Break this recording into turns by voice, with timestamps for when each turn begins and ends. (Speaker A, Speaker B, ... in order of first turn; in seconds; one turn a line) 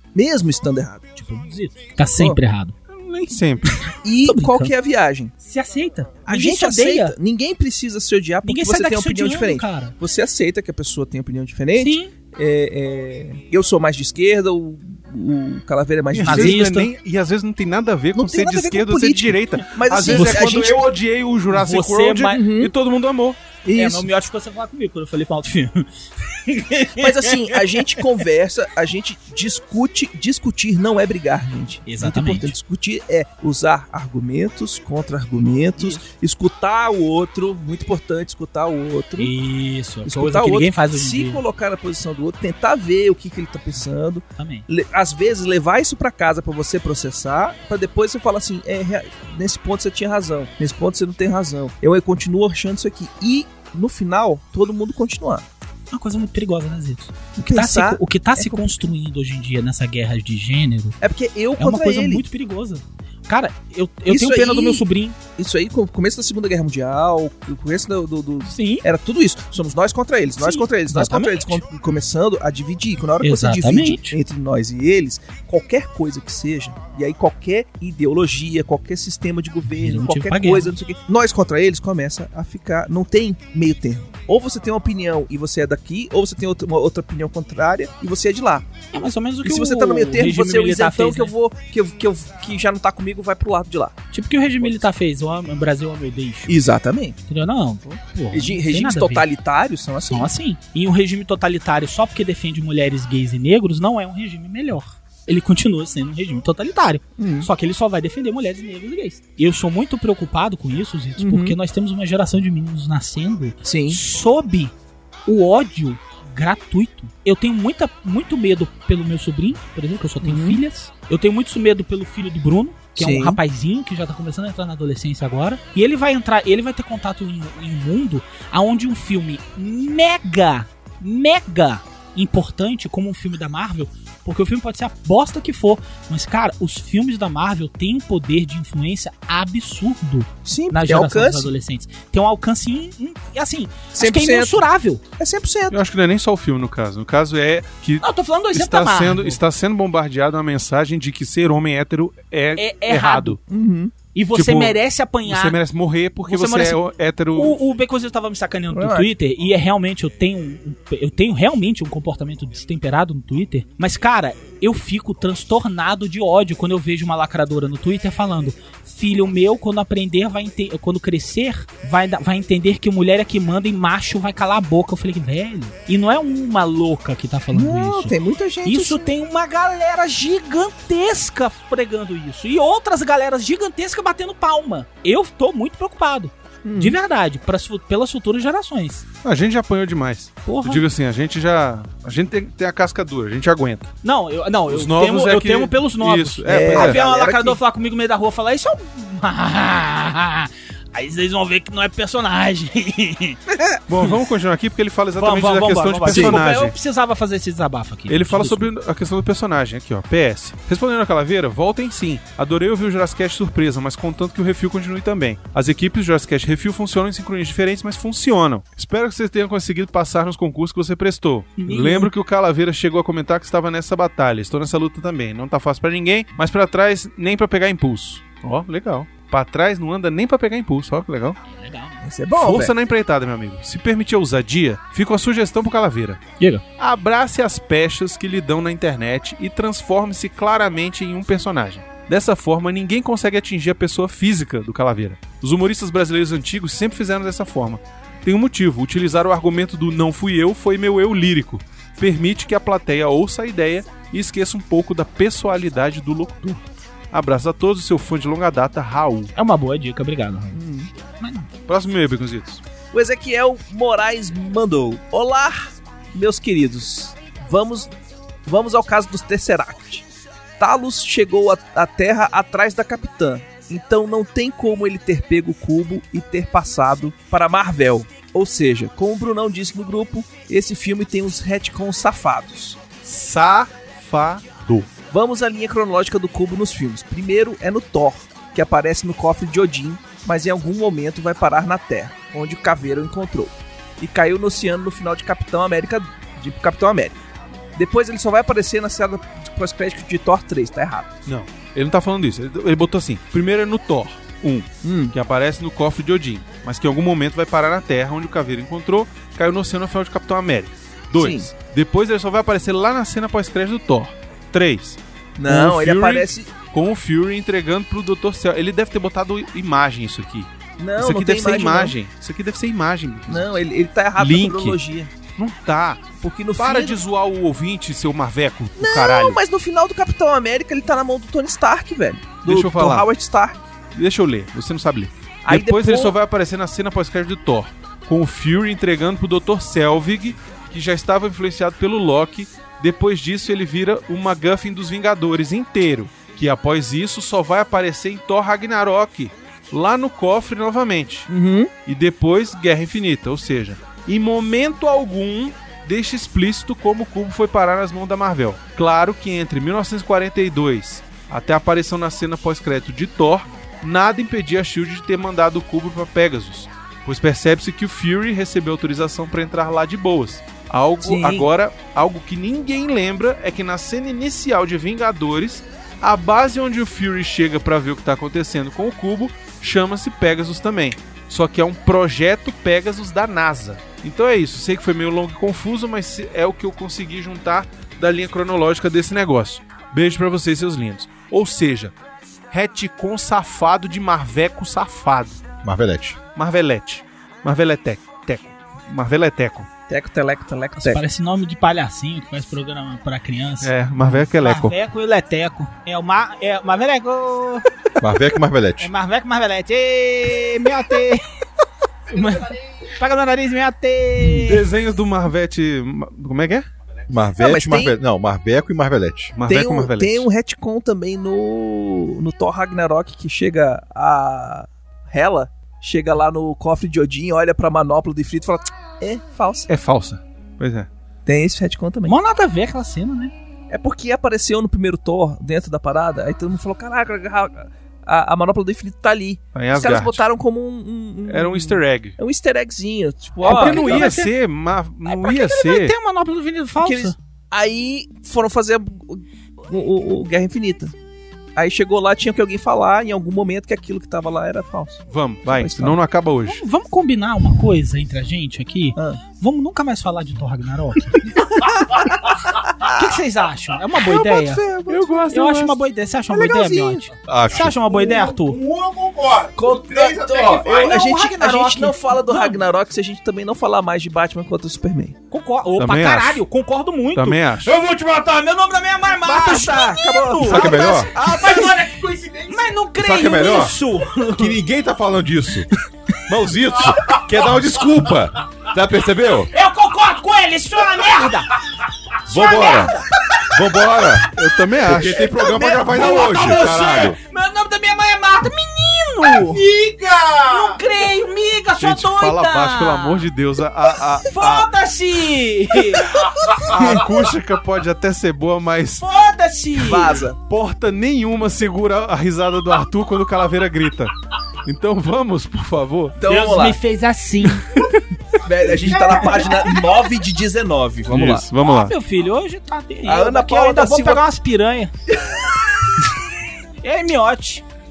Speaker A: 0.1-1.0
Speaker B: 1.1-2.7
Speaker C: 3.0-3.7
Speaker B: 3.7-4.7
Speaker A: 4.0-5.3
Speaker B: 5.4-7.1
Speaker A: 6.2-16.6
Speaker B: 8.4-9.9
Speaker B: 11.8-12.1
Speaker C: 16.1-23.4
Speaker B: 16.2-16.9
Speaker A: 18.1-20.9
Speaker B: 20.1-20.7
Speaker B: 21.5-22.4
Speaker A: 22.3-22.7
Speaker A: 23.6-24.1
Speaker B: 23.8-28.1
Speaker A: 27.0-39.3
Speaker B: 31.8-32.5
Speaker B: 35.8-36.0
Speaker B: 39.2-41.4
Speaker A: 40.0-55.4
Speaker B: 44.4-44.7
Speaker B: 55.9-61.0
Speaker A: 57.4-58.7
Speaker A: 61.0-62.2
Speaker B: 61.6-65.2
Speaker A: 64.1-64.8
Speaker A: 65.4-88.7
Speaker B: 68.5-68.8
Speaker B: 70.4-71.6
Speaker B: 73.2-74.2
Speaker B: 79.7-80.7
Speaker B: 88.9-91.3
Speaker A: 89.4-94.0
Speaker B: 94.1-96.5
Speaker A: 96.5-97.2
Speaker B: 97.3-99.2
Speaker A: 97.8-100.3
Speaker B: 100.1-114.7
Speaker A: 107.2-107.5
Speaker A: 111.2-111.5
Speaker A: 113.6-114.0
Speaker B: 115.2-145.0
Speaker A: 120.2-120.6
Speaker A: 123.0-123.4
Speaker A: 140.4-141.5
Speaker A: 143.9-144.7
Speaker A: 145.2-145.8
Speaker C: 145.7-153.4
Speaker B: 148.0-149.4
Speaker B: 152.6-153.4
Speaker A: 153.5-153.9
Speaker B: 154.1-155.6
Speaker C: 154.3-157.6
Speaker B: 156.2-156.8
Speaker B: 157.3-178.1
Speaker A: 158.7-159.1
Speaker A: 177.5-179.1
Speaker B: 178.6-189.1
Speaker A: 186.6-186.9
Speaker C: 189.2-193.9
Speaker B: 190.4-190.8
Speaker B: 194.0-203.4
Speaker C: 194.7-197.0
Speaker A: 196.5-197.6
Speaker A: 203.5-203.8
Speaker C: 203.9-206.7
Speaker B: 205.2-208.7
Speaker A: 206.1-206.4
Speaker C: 208.1-231.4
Speaker B: 221.6-222.1
Speaker B: 231.4-232.0
Speaker A: 232.0-232.7
Speaker C: 232.3-236.2
Speaker C: 236.8-259.3
Speaker B: 259.4-260.6
Speaker A: 260.5-260.9
Speaker B: 261.2-261.5
Speaker C: 261.7-262.6
Speaker A: 262.9-267.9
Speaker A: 268.4-270.1
Speaker A: 270.6-282.8
Speaker C: 283.0-284.9
Speaker A: 285.1-297.2
Speaker A: 297.8-301.1
Speaker C: 301.2-323.6
Speaker A: 304.8-305.1
Speaker A: 311.2-311.5
Speaker A: 315.4-316.5
Speaker A: 320.8-321.9
Speaker A: 323.3-325.1
Speaker C: 324.2-324.8
Speaker C: 325.4-329.4
Speaker A: 326.2-327.0
Speaker A: 328.8-333.6
Speaker C: 332.4-333.1
Speaker C: 333.9-351.3
Speaker A: 335.4-336.1
Speaker A: 351.3-351.7
Speaker C: 351.9-391.9
Speaker A: 371.0-371.5
Speaker C: 392.5-395.4
Speaker D: 395.6-396.2
Speaker C: 396.3-399.7
Speaker A: 399.9-401.0
Speaker B: 400.8-403.7
Speaker C: 403.6-404.7
Speaker B: 404.4-407.6
Speaker D: 408.0-408.9
Speaker B: 408.8-411.2
Speaker B: 412.1-414.6
Speaker A: 414.2-414.5
Speaker C: 414.4-416.7
Speaker D: 417.1-419.3
Speaker A: 417.4-417.9
Speaker C: 419.3-420.3
Speaker A: 419.4-429.7
Speaker C: 429.7-430.9
Speaker A: 431.2-432.2
Speaker B: 432.1-433.3
Speaker A: 433.7-444.1
Speaker C: 439.6-440.2
Speaker C: 441.3-442.2
Speaker C: 443.4-445.9
Speaker B: 443.4-444.3
Speaker B: 445.1-447.1
Speaker A: 446.8-450.9
Speaker A: 451.6-456.0
Speaker C: 455.1-456.6
Speaker B: 456.5-461.4
Speaker A: 461.4-463.1
Speaker B: 462.8-464.6
Speaker A: 463.9-465.1
Speaker C: 464.9-465.8
Speaker B: 465.3-468.6
Speaker A: 466.3-467.1
Speaker D: 467.2-467.8
Speaker A: 467.9-468.2
Speaker E: 467.9-471.0
Speaker A: 469.6-475.1
Speaker B: 470.6-472.6
Speaker B: 475.3-484.6
Speaker C: 475.8-476.4
Speaker C: 477.1-477.8
Speaker A: 479.2-481.9
Speaker D: 480.4-481.1
Speaker E: 481.8-482.6
Speaker D: 483.0-483.8
Speaker D: 484.3-485.7
Speaker D: 486.3-489.5
Speaker B: 489.5-491.6
Speaker D: 492.3-492.9
Speaker B: 492.3-493.1
Speaker D: 493.5-494.3
Speaker C: 494.3-495.3
Speaker D: 494.8-497.2
Speaker A: 495.4-496.7
Speaker B: 495.5-499.6
Speaker E: 499.5-500.8
Speaker B: 500.4-503.3
Speaker C: 501.8-504.7
Speaker B: 504.3-506.2
Speaker C: 506.2-509.1
Speaker B: 509.0-510.2
Speaker A: 509.8-510.4
Speaker C: 510.5-514.1
Speaker C: 514.6-516.2
Speaker A: 516.2-516.8
Speaker B: 516.2-517.7
Speaker C: 517.7-518.0
Speaker A: 518.4-521.4
Speaker B: 518.9-519.7
Speaker C: 521.1-521.9
Speaker B: 521.6-524.9
Speaker A: 523.0-524.2
Speaker B: 526.8-527.6